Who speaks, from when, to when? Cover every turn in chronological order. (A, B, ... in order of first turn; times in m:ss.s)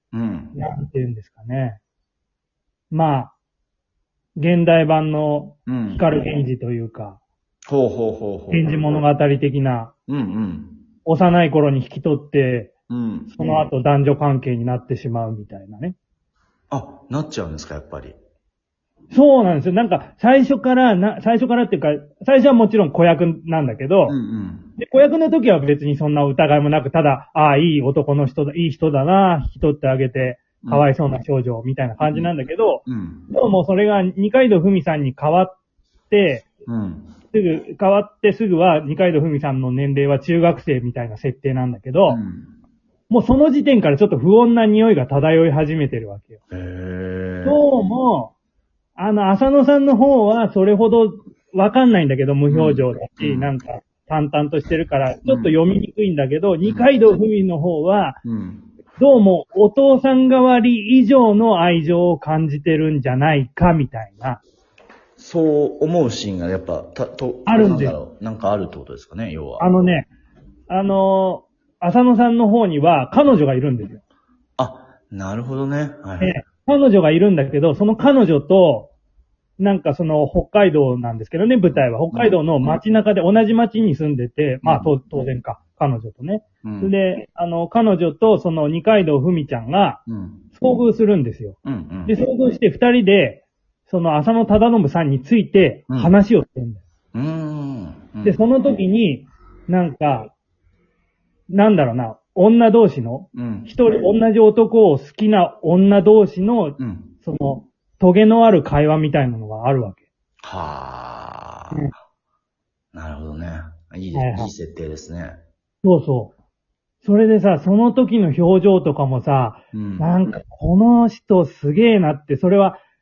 0:00.1-0:00.6 A
0:00.5-0:01.8 B
0:02.9-0:03.3 B
0:04.4-0:07.2 B
0:05.7-0:06.0 A
0:07.7-0:08.7 A
0:08.5-0:09.9 B
0:10.1-0:10.8 A
0:11.0-0:12.7 B
0:12.9-0:13.3 A
0:13.3-0:16.0 B
0:16.7-0:18.2 A
0:19.1-0:24.2 B
0:24.1-0:24.7 A
0:24.8-0:35.6 B
0:32.0-0:32.3 A
0:32.9-0:33.3 A
0:36.1-0:36.5 B
0:36.7-0:37.1 A
0:37.3-0:42.2 B
0:42.1-0:42.5 A
0:43.1-0:46.4 B
0:46.5-0:47.6 A
0:47.4-0:48.3 B
0:49.0-0:58.2 B
0:52.5-0:53.5 A
0:55.2-0:55.6 A
0:56.6-0:56.9 A
0:58.2-0:58.7 A
0:59.0-1:04.4 B
1:05.2-1:09.7 A
1:07.5-1:08.0 B
1:09.6-1:10.1 B
1:10.7-1:14.0 B
1:14.6-1:16.3 A
1:16.2-1:18.9 B
1:19.6-1:30.0 B
1:22.1-1:22.4 A
1:24.6-1:24.9 A
1:26.6-1:26.9 A
1:30.1-1:30.4 A
1:30.5-1:36.8 B
1:31.6-1:32.2 A
1:37.1-1:38.4 A
1:38.2-1:40.3 B
1:41.5-1:50.0 B
1:43.3-1:43.7 A
1:46.8-1:47.1 A
1:50.4-1:51.9 A
1:52.9-1:55.4 A
1:54.1-1:54.5 B
1:55.8-1:56.3 B
1:57.0-2:02.8 B
1:59.7-2:00.1 A